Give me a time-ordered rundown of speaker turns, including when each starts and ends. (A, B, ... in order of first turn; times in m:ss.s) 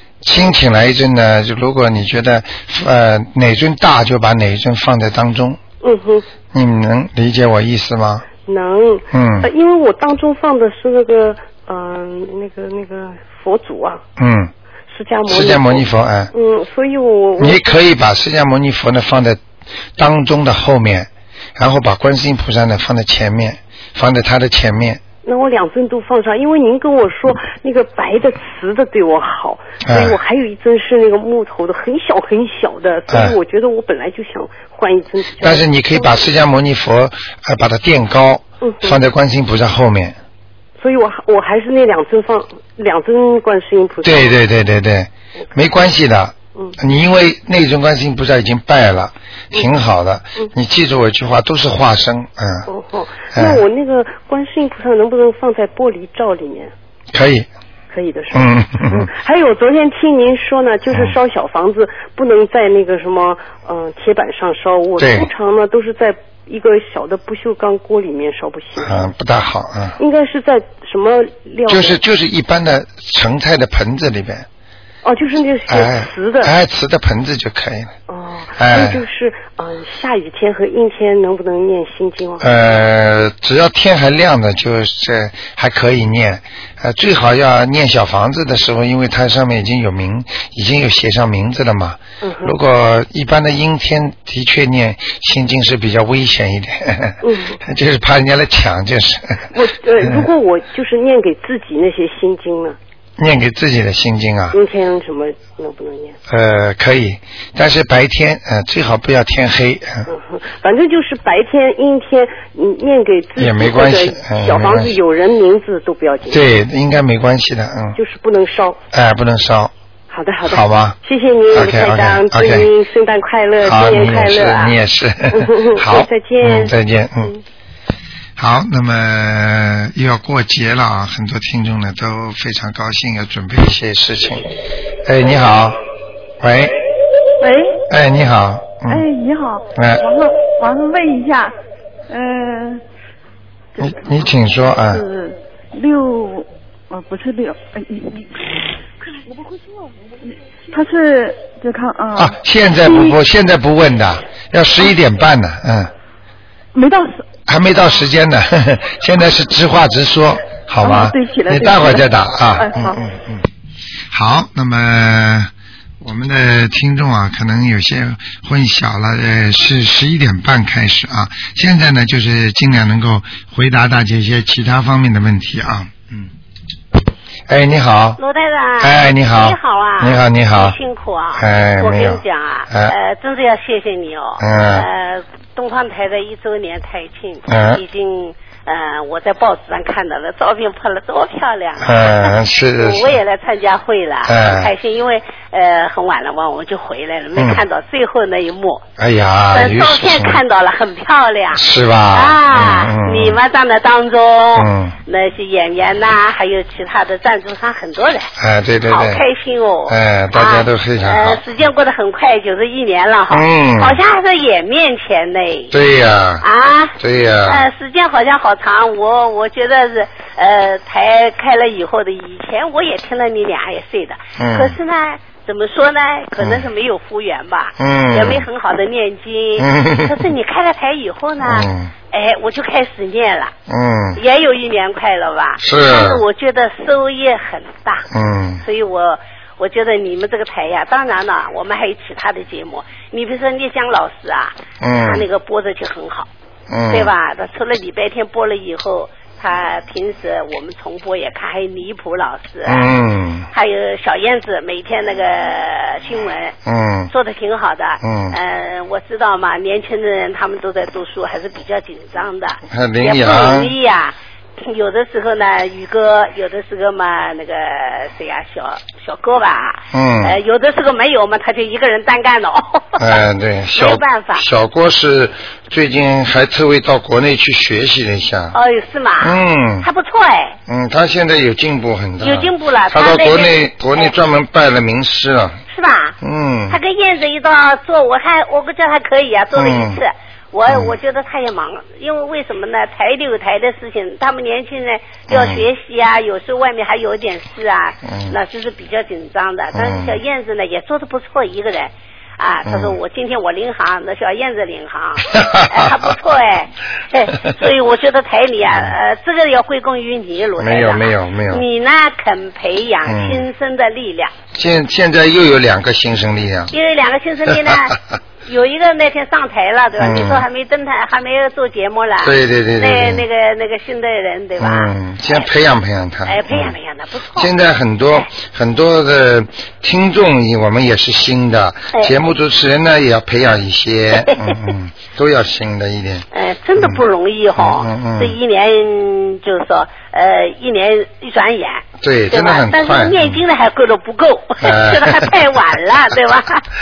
0:00.2-0:05.6 A
0:05.8-0:06.3 B
0:06.5-0:08.3 A
0:08.4-0:14.0 B
0:09.1-0:09.5 A
0:14.2-0:14.5 A
0:14.9-0:17.8 B
0:15.3-0:16.3 A
0:17.4-0:19.4 A
0:20.0-0:25.0 A
0:25.2-0:36.2 B
0:29.8-0:30.2 A
0:33.1-0:33.4 A
0:35.4-0:40.2 A
0:38.6-0:39.0 B
0:40.8-0:44.4 B
0:44.0-0:52.7 A
0:52.7-0:56.7 B
0:53.3-0:53.6 A
0:57.1-0:57.5 A
0:57.9-1:09.1 B
0:58.3-0:59.1 A
1:00.9-1:01.2 A
1:05.0-1:05.3 A
1:08.8-1:10.0 A
1:10.0-1:12.0 B
1:11.7-1:14.5 A
1:15.0-1:16.5 B
1:15.7-1:17.9 A
1:18.1-1:22.5 B
1:18.6-1:19.0 A
1:22.4-1:39.5 A
1:32.2-1:32.5 B
1:37.2-1:37.6 B
1:39.5-1:42.8 B
1:40.0-1:40.3 A
1:43.2-1:44.6 A
1:44.5-1:46.2 B
1:46.3-1:50.1 A
1:50.1-1:56.4 B
1:53.4-1:54.9 A
1:56.3-1:58.0 A
1:58.0-1:58.8 B
1:58.9-1:59.7 A
2:00.1-2:04.8 B
2:00.4-2:01.0 A
2:01.5-2:02.7 A
2:03.6-2:07.3 A
2:05.3-2:06.7 B
2:08.4-2:14.5 A
2:15.0-2:15.8 A
2:16.4-2:16.8 A
2:17.4-2:17.8 C
2:17.9-2:19.0 A
2:18.9-2:21.5 C
2:19.7-2:20.0 A
2:22.1-2:22.8 C
2:23.8-2:24.2 C
2:23.8-2:25.0 A
2:24.8-2:28.3 C
2:30.3-2:33.2 C
2:32.1-2:35.9 A
2:36.7-2:37.2 C
2:37.5-2:43.4 A
2:40.8-2:43.0 C
2:44.1-2:56.3 A
2:57.5-2:58.2 A
2:58.2-3:18.8 D
2:58.8-3:00.8 A
3:01.4-3:02.9 A
3:04.4-3:04.8 A
3:07.5-3:07.8 A
3:11.8-3:13.2 A
3:14.2-3:14.7 A
3:17.4-3:17.6 A
3:19.0-3:20.4 A
3:19.5-3:28.3 D
3:21.5-3:23.4 A
3:24.5-3:24.9 A
3:28.4-3:29.2 A
3:28.9-3:35.7 D
3:29.9-3:31.4 A
3:33.3-3:34.0 A
3:35.7-3:36.4 A
3:36.4-3:53.5 D
3:37.0-3:37.6 A
3:44.4-3:44.8 A
3:46.4-3:46.6 A
3:47.8-3:48.4 A
3:49.6-3:50.2 A
3:51.4-3:51.9 A
3:53.7-3:54.2 A
3:54.2-3:58.0 D
3:55.6-3:56.2 A
3:58.1-3:58.6 A
3:58.6-4:06.3 D
4:04.8-4:05.2 A
4:06.7-4:07.1 A
4:06.9-4:12.9 D
4:12.6-4:13.5 A
4:13.5-4:16.5 D
4:16.6-4:17.1 A
4:17.1-4:33.1 D
4:18.0-4:18.4 A
4:22.7-4:23.7 A
4:29.9-4:30.4 A
4:33.0-4:38.5 A
4:33.7-4:34.4 D
4:38.5-4:40.6 D
4:39.2-4:39.9 A
4:40.7-4:45.6 A
4:42.2-4:44.1 D
4:45.7-4:46.1 D
4:46.2-4:46.8 A
4:46.7-5:14.3 D
4:49.5-4:50.0 A
4:50.7-4:50.9 A
4:55.3-4:55.6 A
4:58.0-4:58.3 A
4:59.7-5:00.2 A
5:02.6-5:03.0 A
5:05.3-5:06.1 A
5:10.6-5:11.6 A
5:13.0-5:13.4 A
5:14.5-5:16.7 A
5:16.7-5:25.5 D
5:17.5-5:17.8 A
5:20.0-5:20.4 A
5:22.2-5:23.2 A
5:24.6-5:26.7 A
5:26.2-5:27.5 D
5:27.4-5:36.2 A
5:34.1-5:34.6 D
5:36.3-5:46.6 D
5:36.8-5:37.0 A
5:37.6-5:38.4 A
5:42.0-5:43.4 A
5:44.6-5:45.3 A